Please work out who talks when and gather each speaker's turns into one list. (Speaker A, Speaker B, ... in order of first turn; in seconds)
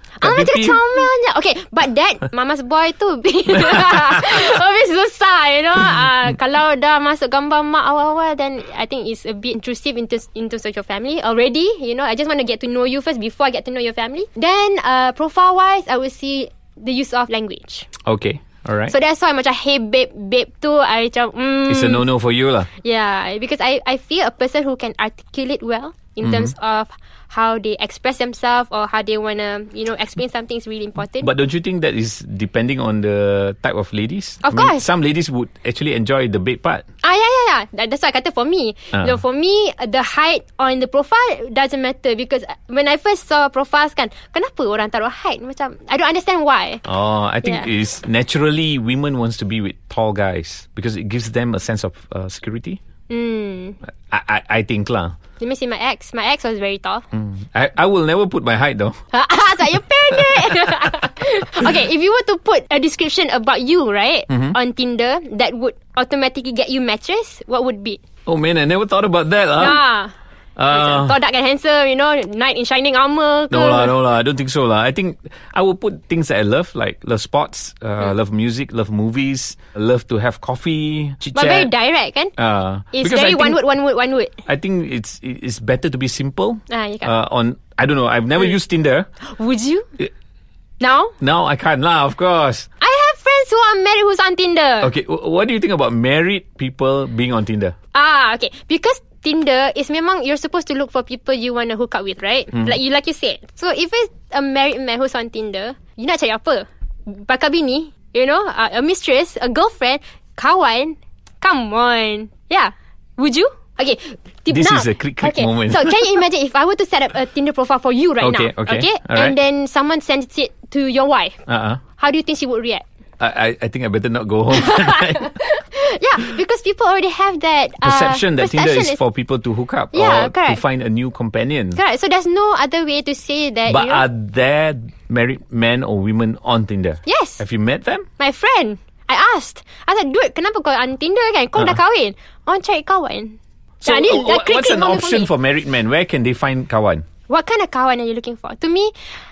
Speaker A: 0.2-17.9, 18.9-22.1, 22.7-31.3, 34.4-34.8, 37.0-46.8, 47.4-47.7, 53.1-53.8, 55.4-57.0, 59.1-68.0, 69.6-70.1, 70.7-74.0, 81.3-82.3, 82.9-84.4, 86.7-87.1, 89.2-90.0, 90.8-91.1, 92.8-94.9, 97.9-121.4, 122.0-122.8, 124.5-129.0, 129.9-130.6, 131.7-134.1, 137.0-137.4, 138.2-145.3, 147.3-148.9
Speaker B: 0.2-0.8, 18.0-18.9, 21.7-22.7, 26.2-26.5, 31.1-36.8, 38.9-39.2, 46.8-52.8, 54.1-55.1, 57.1-59.0, 60.1-60.8, 64.3-64.6, 68.2-69.8, 70.6-71.2, 73.5-81.7, 82.4-83.6, 84.5-89.1, 91.2-92.7, 94.8-97.7, 114.5-116.1, 118.2-119.3, 121.5-121.8, 123.2-125.3, 127.8-131.8, 133.7-138.1, 143.8-147.1